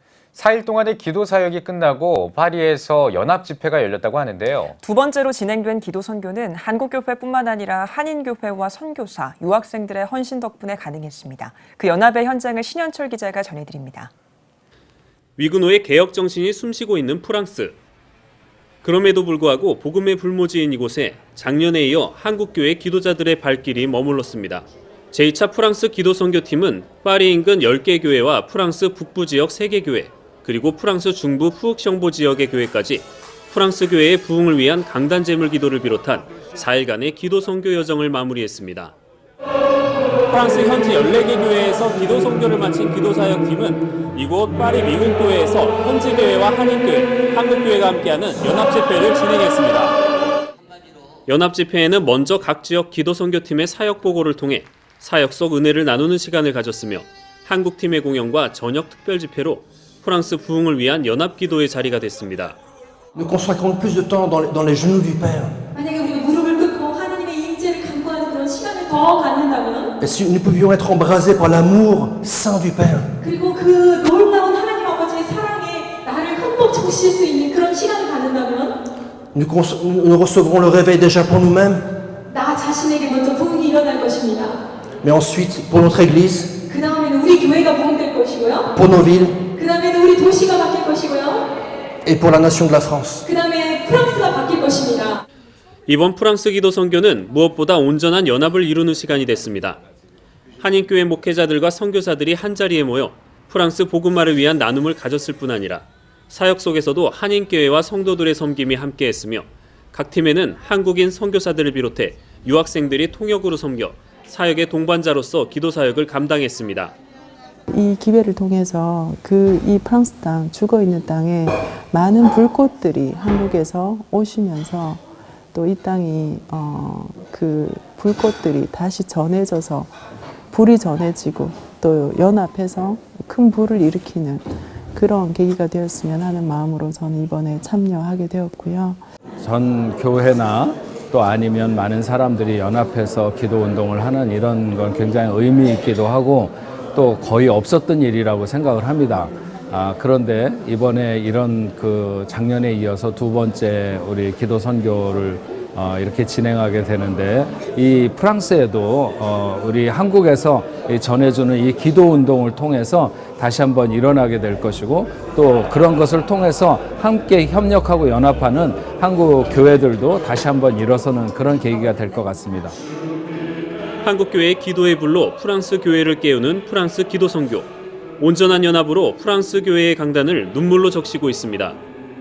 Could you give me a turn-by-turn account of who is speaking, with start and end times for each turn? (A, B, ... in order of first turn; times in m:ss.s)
0:00.4-0:04.7 A
0:04.8-0:14.1 B
0:15.4-0:17.8 C
0:18.8-0:38.9 C
0:40.3-0:50.0 C
0:51.3-1:02.6 C
1:03.1-1:05.5 D
1:05.7-1:09.9 E
1:10.0-1:13.1 D
1:13.2-1:18.8 E
1:19.3-1:21.9 D
1:22.3-1:24.6 E
1:25.0-1:26.5 D
1:26.7-1:28.7 E
1:28.8-1:29.4 D
1:29.5-1:31.5 E
1:32.0-1:33.2 D
1:33.2-1:35.2 E
1:35.9-1:39.8 C
1:40.6-1:56.9 C
1:57.7-2:09.9 F
2:10.5-2:19.0 F
2:19.4-2:52.8 G
2:54.0-3:01.8 C